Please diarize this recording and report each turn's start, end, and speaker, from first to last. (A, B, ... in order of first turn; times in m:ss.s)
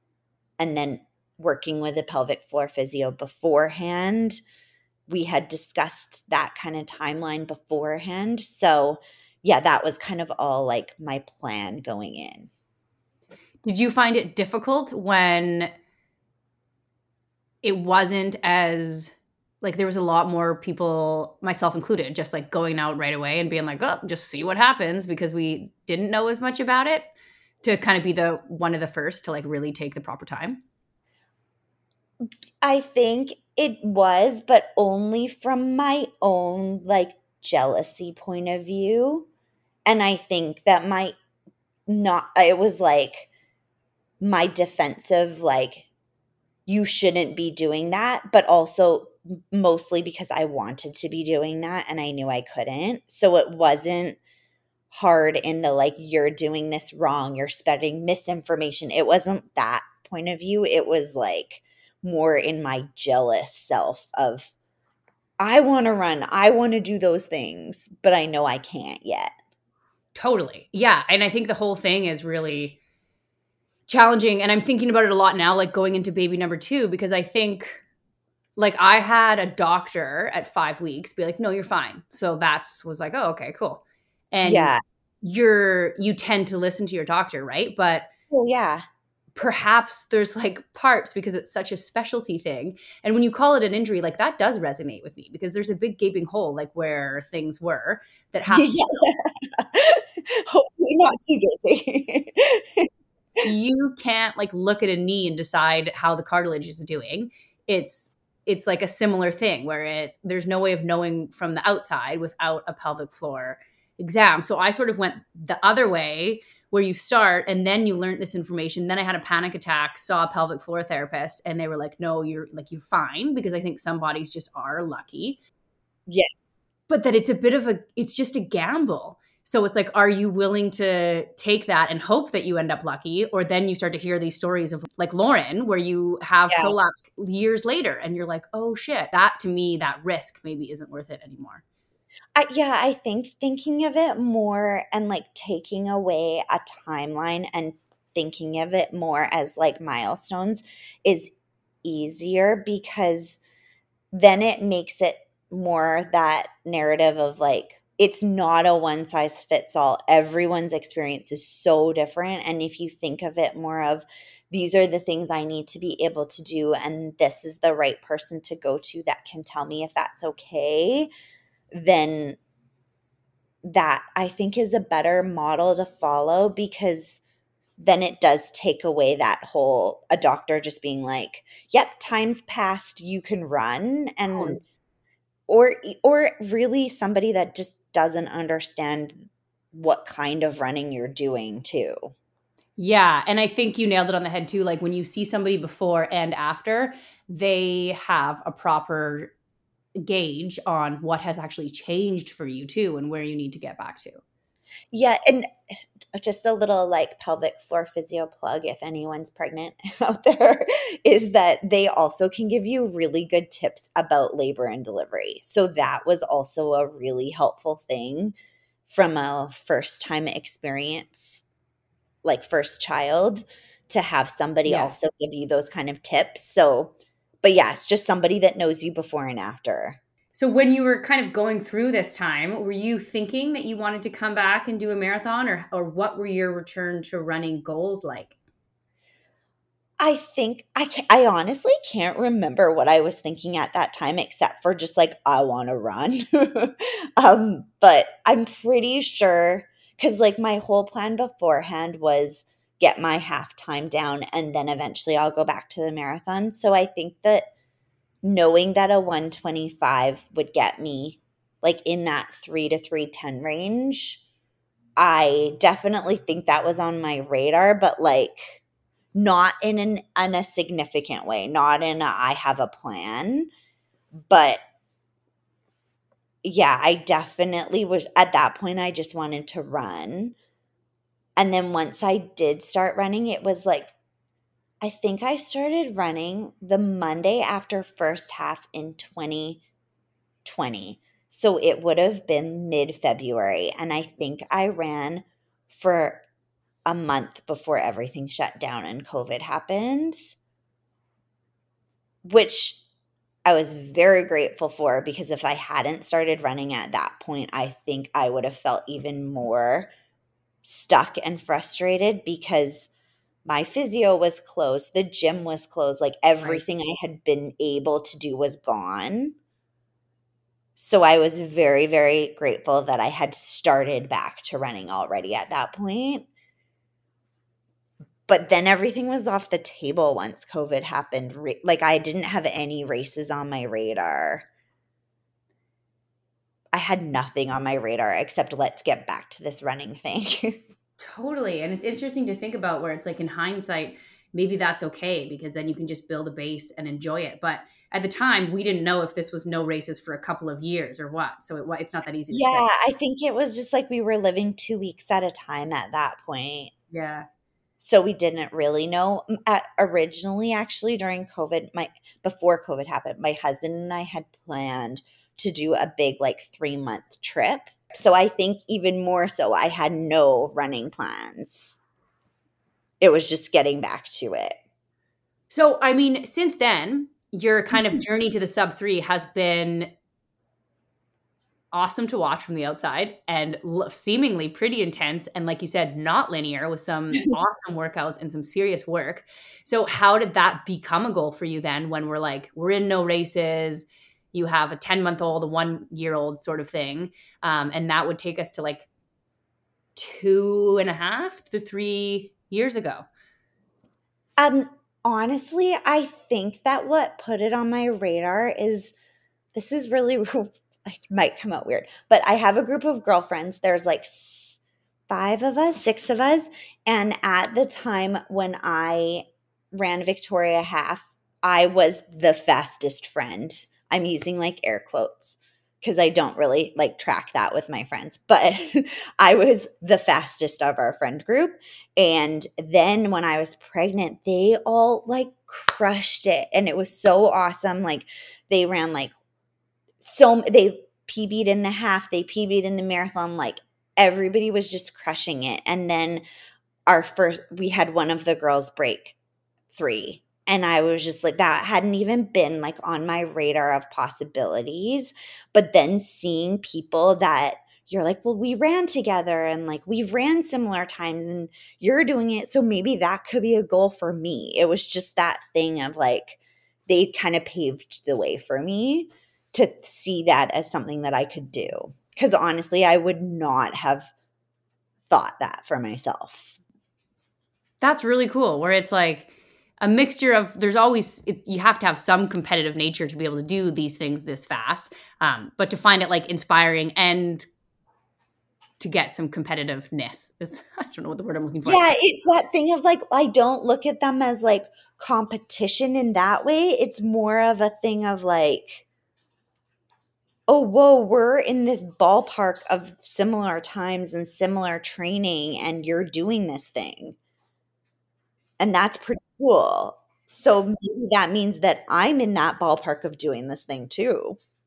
0:00.6-0:04.4 A
0:05.1-0:12.5 A
0:13.6-0:15.7 B
0:17.6-0:27.1 B
0:27.6-0:30.6 B
0:32.6-0:39.3 A
0:39.9-0:41.2 A
0:41.9-0:43.3 A
0:44.2-0:45.9 A
0:46.7-0:54.2 A
0:54.9-1:04.5 A
1:05.4-1:09.3 A
1:10.2-1:12.8 B
1:13.9-1:17.8 B
1:18.6-1:28.1 B
1:24.4-1:24.8 A
1:28.3-1:28.8 A
1:29.4-1:39.1 B
1:38.5-1:42.9 A
1:43.4-2:05.4 B
2:06.1-2:06.5 A
2:06.9-2:21.6 B
2:16.5-2:16.8 A
2:22.4-2:31.3 A
2:31.8-2:33.4 A
2:34.1-2:51.1 A
2:51.7-2:52.4 A
2:53.6-2:57.2 A
2:57.8-3:04.6 A
3:04.3-3:04.6 B
3:05.5-3:12.1 A
3:12.8-3:19.3 B
3:20.0-3:24.2 B
3:24.9-3:25.5 A
3:26.1-3:38.3 A
3:38.9-3:41.4 A
3:42.2-3:50.0 A
3:44.7-3:44.9 B
3:50.3-3:58.4 B
4:00.0-4:17.5 A
4:18.2-4:24.2 A
4:25.0-4:28.6 A
4:29.2-4:33.5 A
4:34.3-4:34.6 A
4:36.4-4:40.4 A
4:41.4-4:43.9 A
4:44.8-4:49.6 A
4:50.4-4:56.2 A
4:56.9-5:00.4 A
5:02.2-5:02.8 A
5:03.5-5:09.9 A
5:10.6-5:12.9 A
5:13.5-5:19.4 A
5:20.8-5:26.3 A
5:28.3-5:34.5 A
5:36.7-5:40.6 A
5:41.0-5:52.7 B
5:52.3-5:56.7 A
5:56.9-5:57.3 B
5:57.8-6:11.8 A
6:13.0-6:14.6 A
6:15.5-6:19.9 B
6:21.7-6:38.9 B
6:40.0-6:43.0 B
6:44.4-6:48.9 A
6:49.6-7:19.1 A
7:20.0-7:26.2 A
7:26.9-7:29.2 A
7:29.7-7:54.1 A
7:55.1-7:56.6 A
7:57.8-8:07.4 B
8:08.8-8:11.9 B
8:11.6-8:18.9 A
8:20.5-8:27.2 A
8:28.6-8:34.4 A